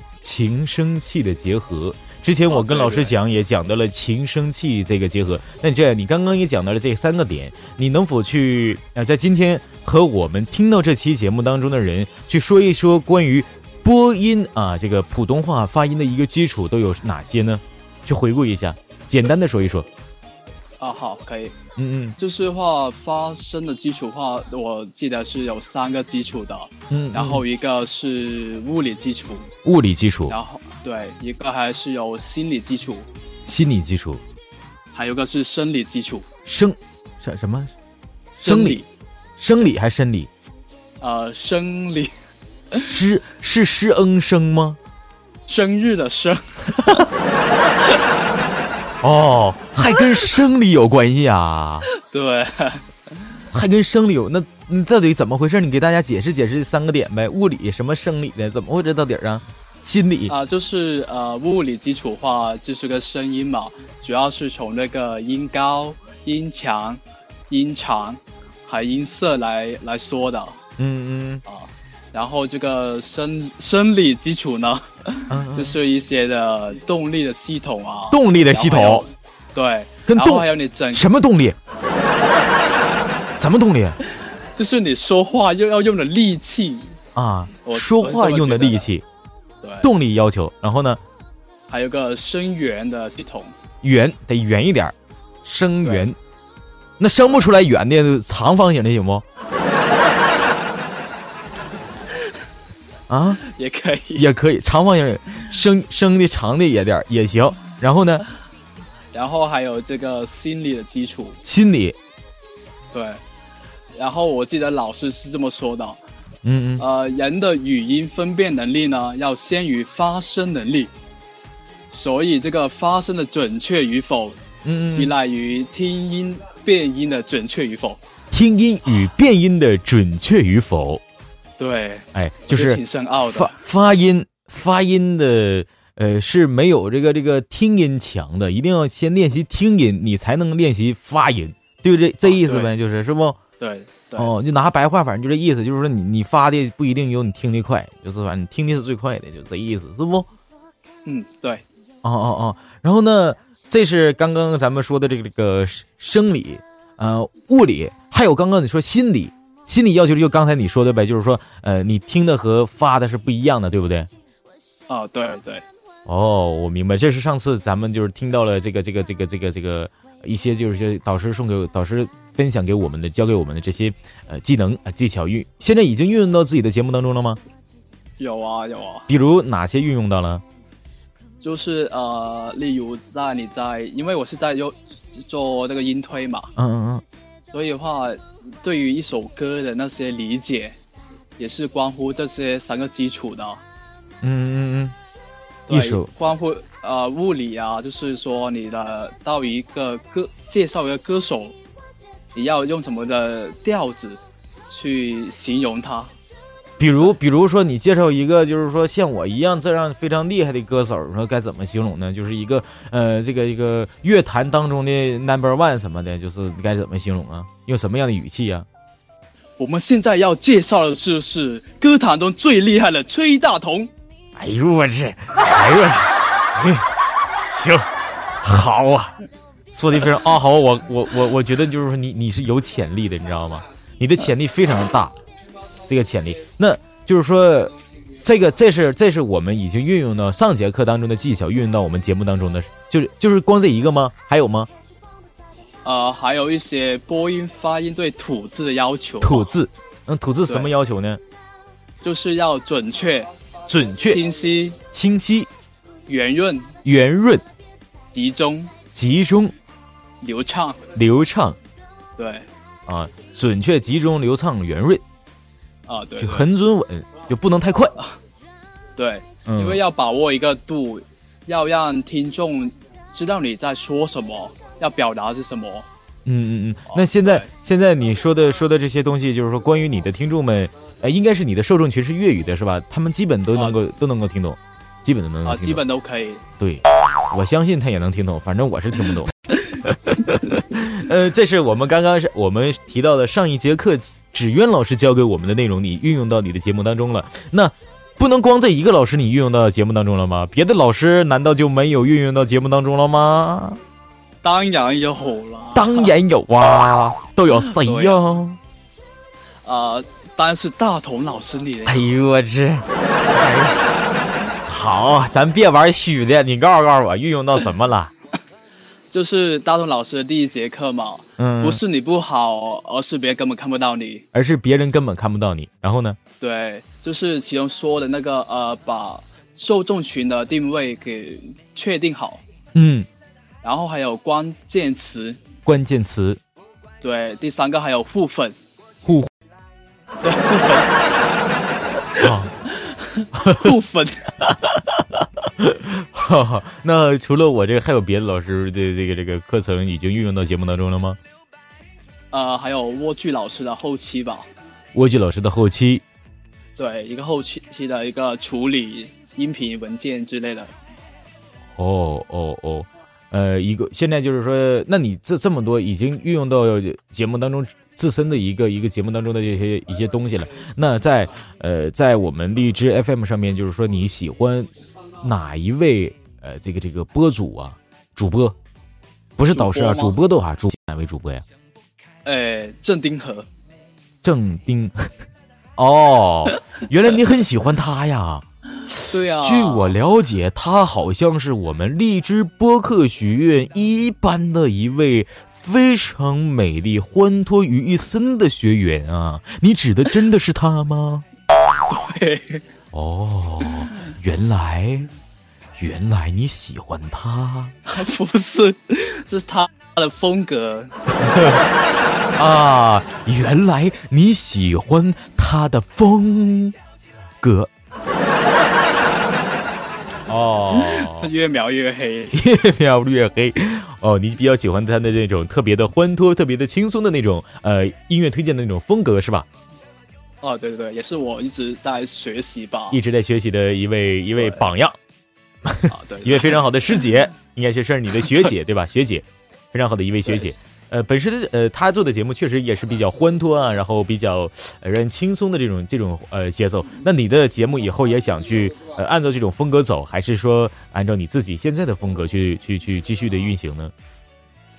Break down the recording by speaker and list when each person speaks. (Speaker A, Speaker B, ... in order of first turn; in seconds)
Speaker A: 0.2-19.9, 21.8-22.2, 26.9-27.4, 29.6-30.4, 33.5-34.2, 36.5-37.7, 38.4-38.8, 39.4-40.3, 42.7-44.8, 49.0-51.9, 53.5-60.3, 70.8-71.4, 75.3-75.8, 78.1-79.1, 80.1-81.6, 83.4-84.0, 87.2-89.0, 89.8-91.0, 93.8-96.2, 97.0-99.2, 103.1-103.4, 104.2-108.2, 111.4-112.0, 116.4-116.8, 124.6-125.1, 128.3-131.0, 132.1-143.4, 144.2-150.3, 152.0-164.1, 166.1-177.4, 179.1-180.4, 186.6-187.0, 194.2-194.9, 195.7-196.1, 206.8-218.7, 224.4-227.9, 228.4-229.2, 229.7-235.2, 235.9-244.7, 249.2-251.2, 253.7-254.2, 254.9-255.5, 256.9-257.4, 258.9-259.5, 260.9-261.6, 262.9-265.0, 266.2-268.0, 269.5-269.8, 276.3-285.8, 286.6-303.8, 305.8-308.6, 311.9-313.8, 314.6-318.1, 321.4-321.8, 324.3-326.2, 332.7-333.1, 335.7-336.4, 339.0-339.3, 342.2-342.5, 343.3-343.8, 344.4-351.2, 354.9-356.0, 361.8-374.7, 375.2-378.6, 379.4-381.4, 384.2-385.2, 385.8-401.2, 402.9-405.1, 405.8-407.8, 411.1-411.7, 412.4-416.8, 417.4-417.7, 420.3-421.3, 422.3-429.5, 432.9-435.0, 435.6-453.9
Speaker B: 2.5-3.2, 20.8-21.6, 22.2-29.5, 30.3-33.1, 34.9-36.3, 38.4-38.9, 41.0-42.1, 45.5-47.0, 51.9-52.9, 60.3-70.6, 71.5-81.1, 84.6-87.0, 87.7-88.9, 89.6-89.9, 91.7-93.5, 95.8-96.1, 103.4-104.3, 109.1-111.4, 112.9-113.2, 114.0-116.0, 116.8-120.9, 121.9-124.4, 125.0-128.0, 131.6-133.6, 142.2-142.7, 143.6-144.3, 151.1-151.7, 164.9-165.7, 178.2-179.1, 181.4-186.5, 187.5-190.8, 191.4-193.6, 195.7-201.6, 202.3-206.1, 219.6-223.9, 245.8-249.5, 252.0-253.3, 254.0-254.8, 256.1-256.8, 258.1-258.7, 260.2-260.8, 262.2-262.5, 265.9-266.5, 269.0-275.9, 276.9-277.5, 283.5-283.8, 285.4-286.4, 304.4-306.1, 307.8-308.2, 309.6-312.1, 319.1-324.2, 326.4-332.4, 333.6-335.4, 337.0-338.6, 340.2-341.0, 342.0-344.3, 352.3-354.5, 356.8-360.7, 379.5-380.2, 382.2-383.5, 388.9-389.9, 401.9-402.6, 407.9-410.9, 420.7-422.4, 430.4-433.0, 434.4-434.6, 435.9-436.6, 440.3-440.5